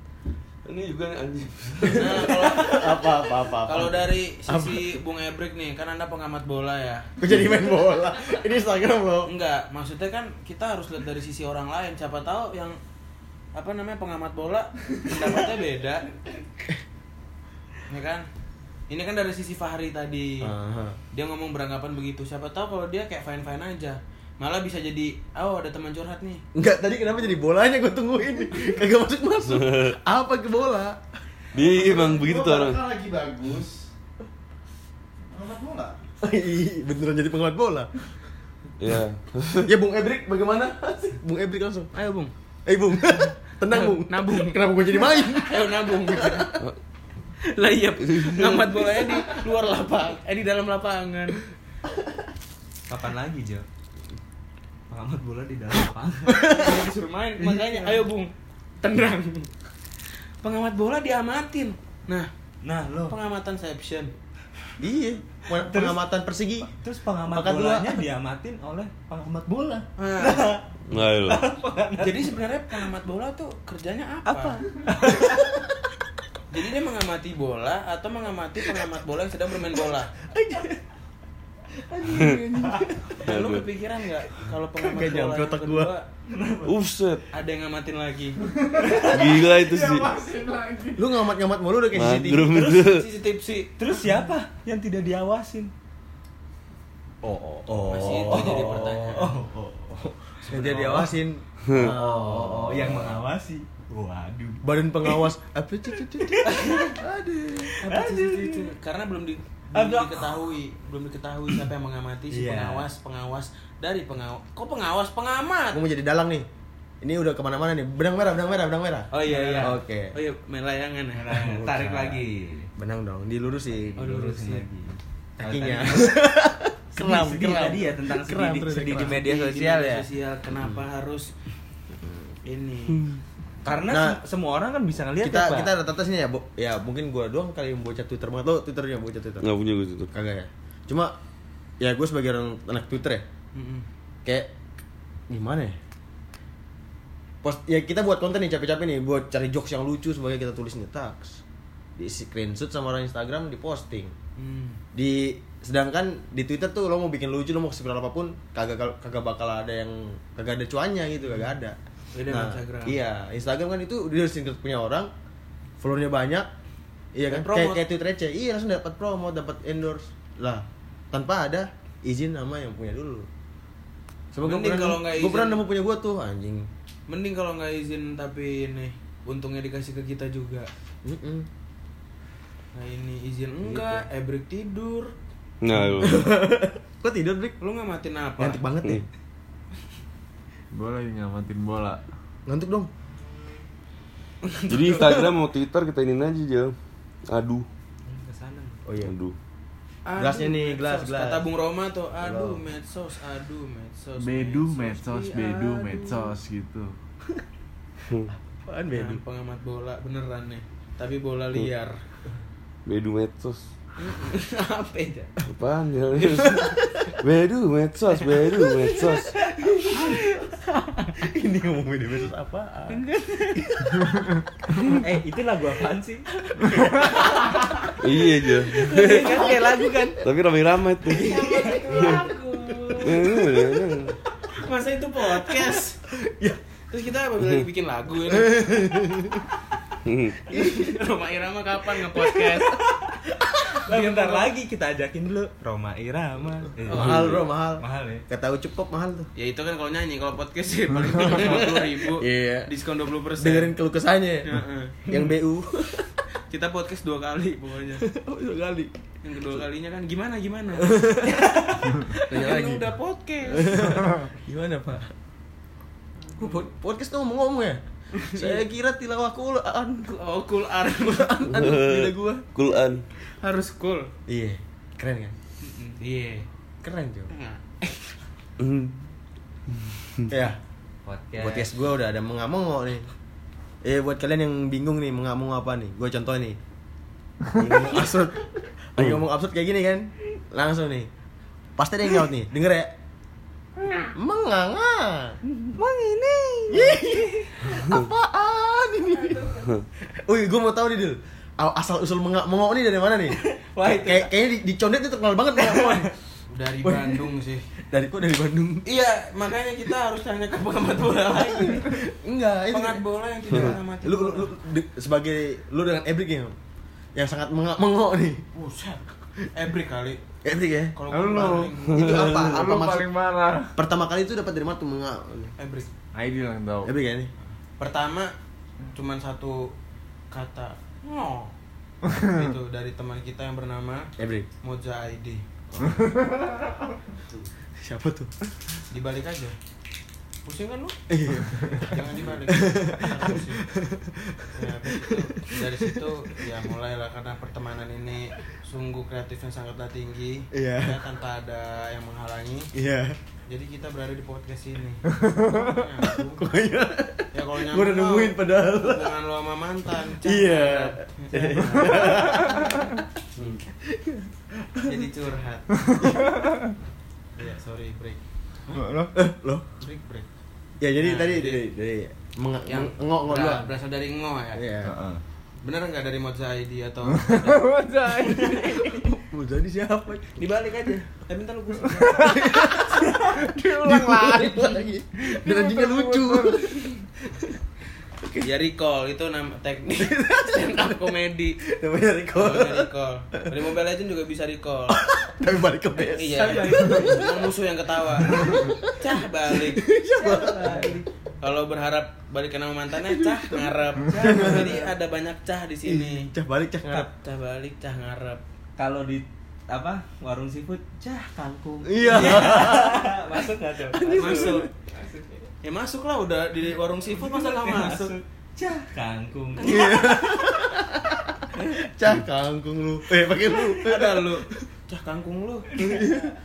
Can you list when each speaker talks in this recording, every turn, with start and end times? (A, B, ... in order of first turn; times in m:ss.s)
0:00.6-0:02.6 A
0:01.8-0:04.9 B
0:01.9-0:07.1 C
0:07.2-0:09.3 B
0:09.3-0:12.8 C
0:13.6-0:16.2 C
0:17.9-0:18.3 C
0:18.9-0:20.5 C
0:20.4-0:21.0 B
0:21.1-0:26.4 C
0:26.6-0:31.0 B
0:29.5-0:30.0 A
0:31.5-0:32.9 A
0:31.6-0:33.9 D
0:35.2-0:36.0 D
0:36.2-0:37.9 B
0:38.8-0:39.7 A
0:39.6-0:41.9 B
0:41.9-0:42.3 C
0:42.7-0:46.6 B
0:43.7-0:46.5 C
0:47.4-0:51.4 C
0:48.0-0:48.8 A
0:52.9-0:53.6 E
0:54.9-0:56.6 E
0:56.3-0:56.8 B
0:56.4-0:59.5 C
0:57.4-0:58.0 E
1:00.4-1:02.3 C
1:02.6-1:03.2 E
1:03.1-1:04.1 C
1:04.8-1:06.7 B
1:05.5-1:06.0 E
1:06.6-1:12.8 E
1:07.3-1:08.0 B
1:10.0-1:10.5 C
1:10.9-1:11.4 A
1:12.0-1:14.6 C
1:14.3-1:15.5 E
1:15.2-1:15.6 B
1:16.5-1:20.1 C
1:20.3-1:20.8 B
1:21.9-1:23.2 B
1:22.1-1:22.4 A
1:23.2-1:26.1 C
1:23.2-1:23.6 A
1:24.8-1:25.9 B
1:26.3-1:26.7 E
1:26.6-1:27.2 A
1:27.3-1:28.4 C
1:28.4-1:31.2 D
1:28.8-1:29.2 E
1:29.0-1:30.2 A
1:31.0-1:32.7 B
1:31.9-1:33.1 A
1:32.5-1:32.9 E
1:32.7-1:33.7 C
1:33.8-1:35.7 E
1:37.2-1:41.1 E
1:37.7-1:39.2 B
1:37.9-1:39.3 C
1:40.0-1:43.2 B
1:41.6-1:41.9 A
1:41.8-1:45.3 E
1:44.6-1:47.8 B
1:46.2-1:47.0 E
1:47.7-1:48.7 E
1:47.8-1:55.8 C
1:49.7-1:50.4 E
1:52.3-1:52.9 B
1:55.7-1:56.5 B
1:57.0-2:00.2 B
1:59.1-2:01.7 C
1:59.1-1:59.8 E
2:01.2-2:02.7 E
2:01.5-2:02.2 B
2:02.8-2:04.1 B
2:04.0-2:06.1 E
2:04.0-2:04.7 C
2:05.4-2:09.2 B
2:05.4-2:06.1 C
2:06.9-2:10.0 E
2:08.9-2:11.3 C
2:10.5-2:10.8 B
2:12.0-2:12.3 B
2:12.4-2:13.0 C
2:13.6-2:15.8 E
2:13.9-2:14.2 B
2:15.2-2:19.5 B
2:19.4-2:20.1 A
2:20.1-2:21.2 B
2:21.8-2:23.2 B
2:23.5-2:23.9 C
2:24.2-2:24.5 B
2:25.3-2:25.8 B
2:27.4-2:31.4 B
2:32.0-2:34.2 B
2:34.4-2:34.8 C
2:34.9-2:45.1 B
2:42.1-2:43.0 C
2:45.8-2:46.5 B
2:47.1-2:53.3 B
2:47.3-2:47.8 C
2:54.3-2:56.7 B
2:54.4-2:55.6 C
2:57.1-3:00.7 C
3:01.0-3:01.5 B
3:02.7-3:05.1 C
3:03.7-3:04.0 B
3:05.6-3:06.3 A
3:06.0-3:07.6 B
3:07.6-3:08.6 C
3:08.4-3:09.1 B
3:10.7-3:12.0 D
3:12.5-3:12.9 B
3:14.4-3:15.3 C
3:14.7-3:16.8 A
3:17.3-3:17.7 A
3:18.1-3:18.8 E
3:18.8-3:19.2 B
3:19.0-3:19.4 A
3:20.1-3:26.4 C
3:20.2-3:21.5 B
3:22.2-3:22.6 B
3:24.2-3:27.0 D
3:28.1-3:28.3 A
3:28.6-3:29.2 B
3:28.9-3:32.0 C
3:32.9-3:33.7 A
3:34.0-3:35.3 C
3:35.4-3:39.4 A
3:36.2-3:36.8 C
3:36.5-3:37.2 B
3:38.8-3:40.3 C
3:39.7-3:40.2 E
3:39.8-3:40.2 B
3:41.2-3:43.0 B
3:43.0-3:43.6 E
3:43.8-3:44.1 B
3:44.8-3:47.9 E
3:46.7-3:47.8 B
3:46.9-3:47.4 C
3:48.0-3:49.5 A
3:48.8-3:50.1 C
3:48.8-3:50.2 E
3:49.2-3:49.8 B
3:50.2-3:52.2 A
3:51.1-3:52.4 B
3:51.1-3:53.6 C
3:51.2-3:52.2 E
3:53.0-3:54.2 A
3:53.2-3:53.6 B
3:54.5-3:56.0 C
3:56.1-3:56.6 B
3:56.9-3:59.0 C
3:58.3-3:59.5 B
4:00.0-4:00.4 A
4:00.5-4:02.8 C
4:00.5-4:01.0 B
4:02.4-4:08.2 E
4:03.8-4:04.5 C
4:06.9-4:09.3 B
4:06.9-4:07.2 C
4:09.4-4:13.8 C
4:11.2-4:12.7 B
4:13.4-4:16.1 B
4:14.4-4:15.1 C
4:16.5-4:18.1 C
4:18.0-4:18.9 B
4:19.2-4:24.1 C
4:20.8-4:21.6 B
4:21.6-4:21.9 E
4:22.3-4:22.9 B
4:23.5-4:25.1 B
4:26.3-4:26.7 C
4:26.4-4:30.2 B
4:28.2-4:28.6 C
4:30.1-4:31.8 C
4:30.9-4:32.5 B
4:31.5-4:33.0 A
4:33.2-4:34.1 C
4:34.3-4:35.4 B
4:35.6-4:36.5 C
4:36.8-4:37.3 B
4:37.3-4:38.2 C
4:38.6-4:39.0 A
4:39.7-4:40.2 A
4:40.3-4:40.6 B
4:41.0-4:41.7 E
4:41.4-4:43.1 B
4:43.8-4:46.6 B
4:47.5-4:51.1 B
4:51.8-4:52.9 B
4:54.1-4:55.4 B
4:55.6-4:57.7 E
4:56.7-5:06.1 B
4:59.2-4:59.6 E
5:03.3-5:04.3 E
5:05.7-5:06.0 E
5:06.5-5:07.7 C
5:06.8-5:08.9 B
5:08.8-5:12.0 C
5:11.6-5:16.5 B
5:12.7-5:14.5 C
5:13.5-5:13.8 A
5:17.2-5:18.5 B
5:18.5-5:20.2 C
5:20.4-5:21.0 B
5:21.0-5:22.4 C
5:21.1-5:21.8 D
5:21.8-5:22.6 A
5:21.9-5:23.1 B
5:22.4-5:23.8 D
5:23.8-5:25.5 B
5:25.6-5:25.9 C
5:26.1-5:26.9 D
5:26.8-5:27.3 B
5:27.8-5:28.3 C
5:28.9-5:29.7 C
5:30.3-5:31.5 C
5:32.1-5:34.1 C
5:34.2-5:34.5 B
5:34.6-5:35.4 C
5:35.8-5:36.8 D
5:37.8-5:38.3 B
5:38.9-5:39.6 C
5:40.4-5:41.0 C
5:41.1-5:41.9 B
5:41.6-5:43.6 C
5:42.5-5:46.6 B
5:44.5-5:52.7 C
5:50.5-5:51.0 B
5:52.7-5:53.2 B
5:53.5-5:56.5 C
5:56.4-5:59.2 B
5:57.3-6:02.9 C
6:00.1-6:03.0 B
6:03.4-6:03.6 A
6:03.8-6:05.0 B
6:04.8-6:06.0 C
6:06.0-6:06.7 D
6:06.0-6:06.4 B
6:07.4-6:08.9 C
6:08.7-6:09.1 D
6:09.2-6:09.7 B
6:09.8-6:10.3 C
6:10.8-6:13.7 B
6:11.0-6:11.6 C
6:12.7-6:14.6 C
6:14.5-6:15.0 B
6:14.8-6:15.2 D
6:15.6-6:18.9 C
6:17.2-6:18.9 D
6:18.4-6:20.4 B
6:20.4-6:22.8 C
6:22.2-6:27.6 B
6:23.4-6:24.7 D
6:25.4-6:26.6 D
6:28.2-6:28.5 B
6:28.4-6:31.6 C
6:29.9-6:33.6 B
6:32.4-6:35.0 C
6:34.9-6:37.5 B
6:36.1-6:39.8 C
6:36.4-6:37.3 E
6:38.2-6:41.0 B
6:40.1-6:41.1 E
6:41.4-6:46.3 C
6:43.0-6:44.9 B
6:44.0-6:44.9 E
6:45.8-6:47.1 B
6:46.9-6:48.4 C
6:48.8-6:55.5 E
6:51.9-6:53.2 B
6:52.1-6:52.8 C
6:53.9-6:54.7 B
6:54.2-6:54.7 C
6:55.6-6:58.2 C
6:57.1-6:59.9 E
6:59.6-7:00.6 C
6:59.6-7:04.6 B
7:03.7-7:06.2 C
7:05.7-7:06.3 E
7:05.8-7:06.3 B